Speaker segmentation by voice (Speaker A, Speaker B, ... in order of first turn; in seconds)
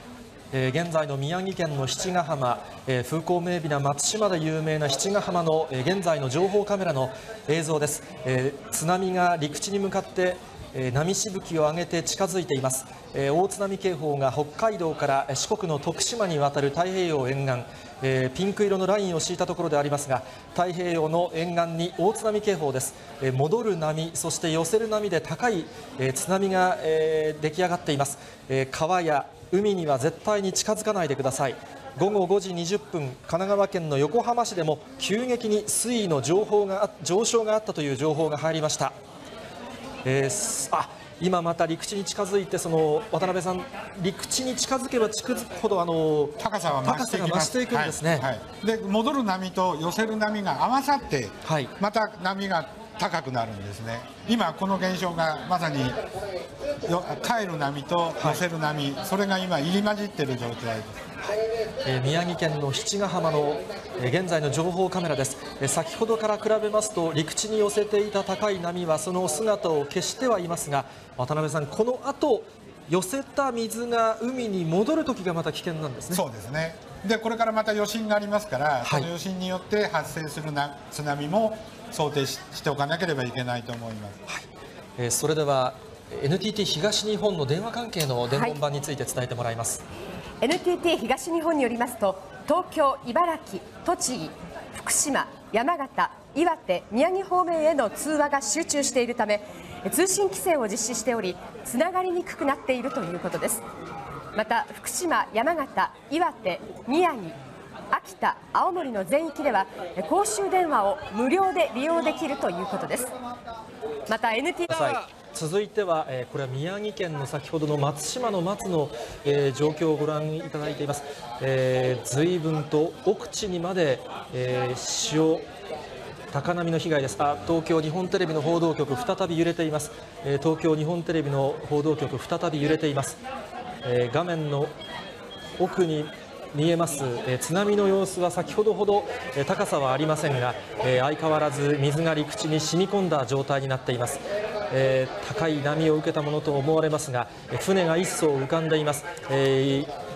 Speaker A: 0.5-38.9, 40.0-48.3, 51.4-51.7, 61.2-76.2, 78.8-79.1, 85.0-89.8, 114.7-125.5, 126.3-133.2, 133.8-134.7, 135.6-144.2, 144.7-149.9
Speaker B: 46.4-56.0, 56.9-61.0, 76.1-84.2
Speaker C: 88.3-88.6, 90.4-103.6, 104.3-107.4, 107.9-113.1, 114.1-115.0